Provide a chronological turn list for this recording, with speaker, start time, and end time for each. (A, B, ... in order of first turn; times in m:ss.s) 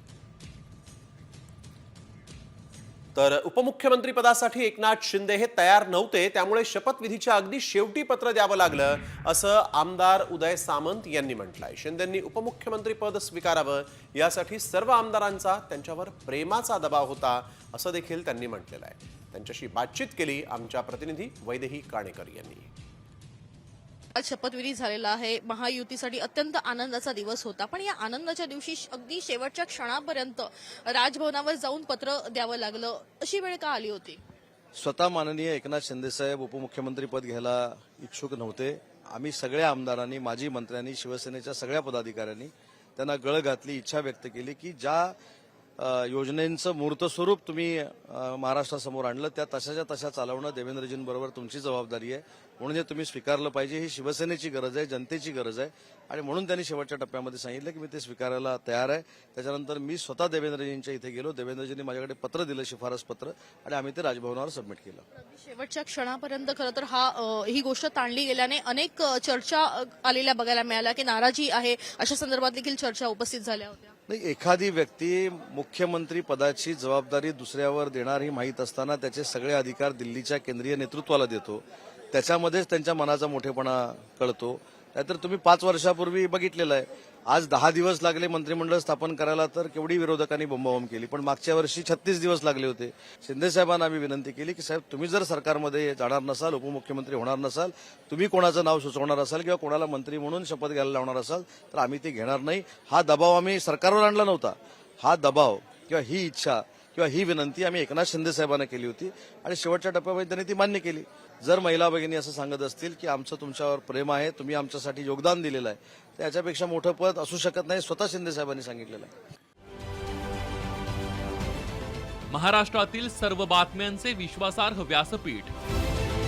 0:03.1-0:22.7 A
0:24.2-0:34.2 B
0:34.7-0:45.1 C
0:45.8-1:05.0 C
1:05.2-1:13.9 B
1:14.1-1:59.1 C
2:02.3-2:05.5 D